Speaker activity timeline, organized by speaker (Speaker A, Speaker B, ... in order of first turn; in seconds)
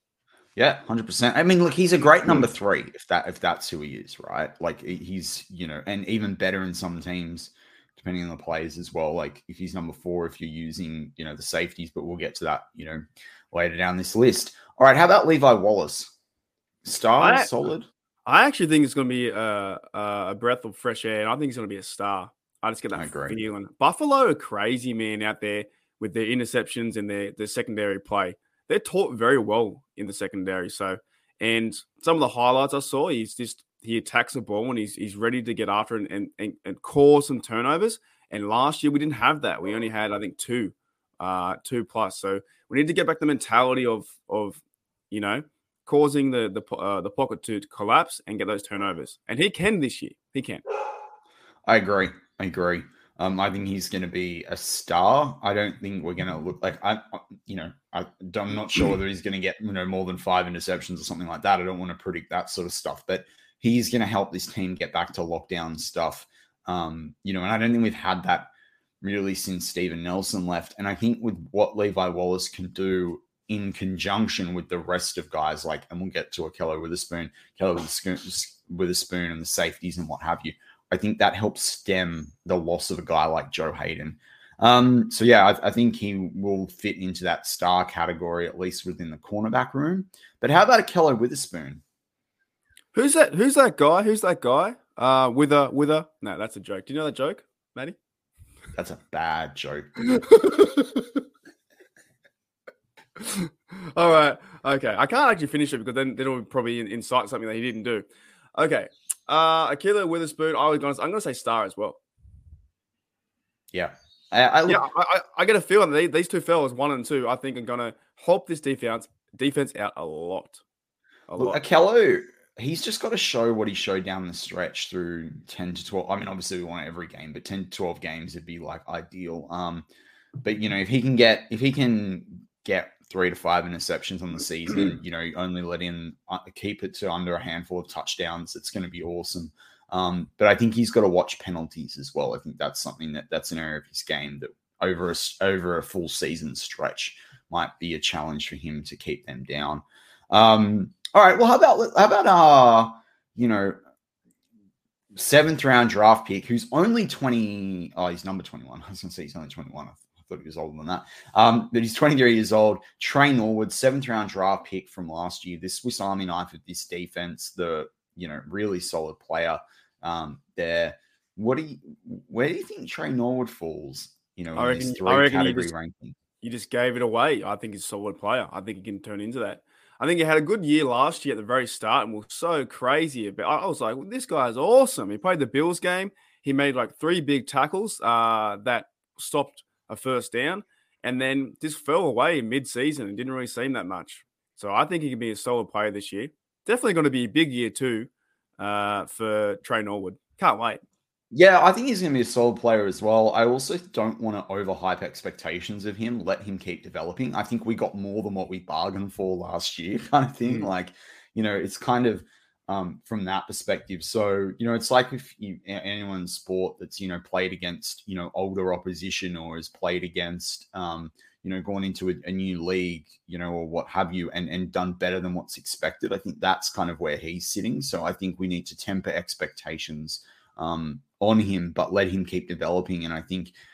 Speaker A: 0.6-16.1, 16.8-17.9, 22.9-23.4, 51.7-68.5, 69.0-91.8, 98.7-100.0, 113.7-114.8, 121.4-129.9, 130.4-153.8, 155.1-176.2, 201.3-233.5
Speaker B: 17.2-17.5, 18.3-50.6, 92.9-98.0, 100.2-101.1, 103.2-112.0, 114.7-120.6, 121.3-121.6, 174.5-175.7, 176.4-200.8